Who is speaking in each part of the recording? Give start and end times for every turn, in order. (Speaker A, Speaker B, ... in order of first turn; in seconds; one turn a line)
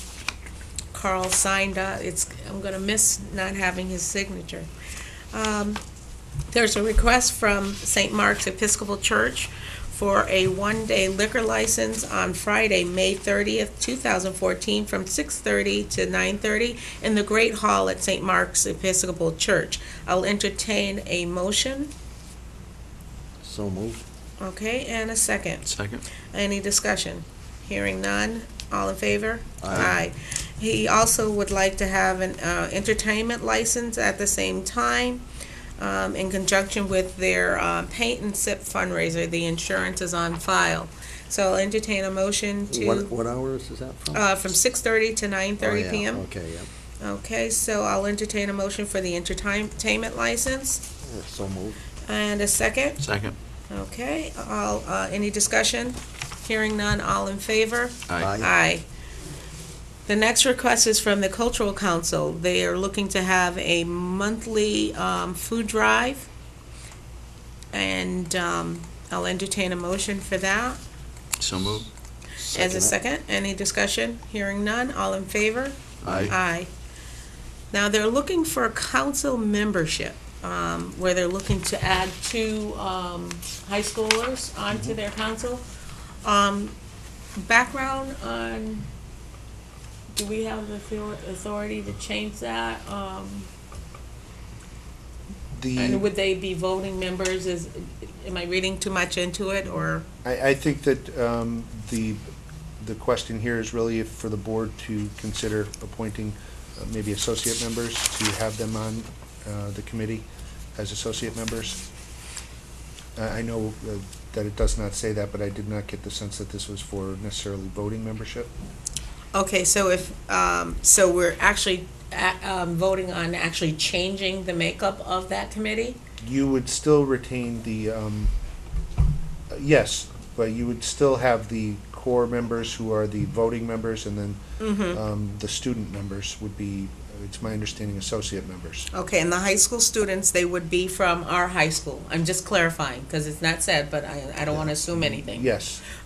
Speaker A: 0.9-4.7
Speaker A: 5.3-5.8
Speaker A: 6.5-21.9
Speaker B: 23.4-24.0
Speaker A: 24.4-25.6
Speaker C: 25.6-26.0
Speaker A: 26.3-35.2
Speaker B: 29.6-29.9
Speaker A: 35.8-43.1
Speaker B: 42.7-44.3
Speaker A: 44.1-46.2
Speaker B: 45.6-46.7
Speaker A: 47.0-50.8
Speaker B: 51.0-51.8
Speaker A: 52.0-53.0
Speaker C: 53.0-53.4
Speaker A: 53.7-58.8
Speaker C: 58.1-58.4
Speaker B: 58.2-58.5
Speaker A: 60.1-66.2
Speaker A: 67.7-70.8
Speaker C: 71.4-71.9
Speaker B: 72.4-73.0
Speaker A: 72.5-76.7
Speaker C: 76.0-76.3
Speaker B: 76.0-76.3
Speaker A: 77.7-85.6
Speaker A: 86.2-86.7
Speaker A: 87.4-88.8
Speaker A: 90.1-93.5
Speaker D: 95.5-96.0
Speaker A: 95.8-100.0
Speaker D: 100.2-102.3
Speaker D: 102.8-111.8
Speaker D: 113.2-118.5
Speaker A: 119.3-126.0
Speaker D: 126.2-128.3
Speaker D: 129.5-138.9
Speaker A: 134.6-135.0
Speaker A: 138.9-145.5
Speaker D: 144.5-145.8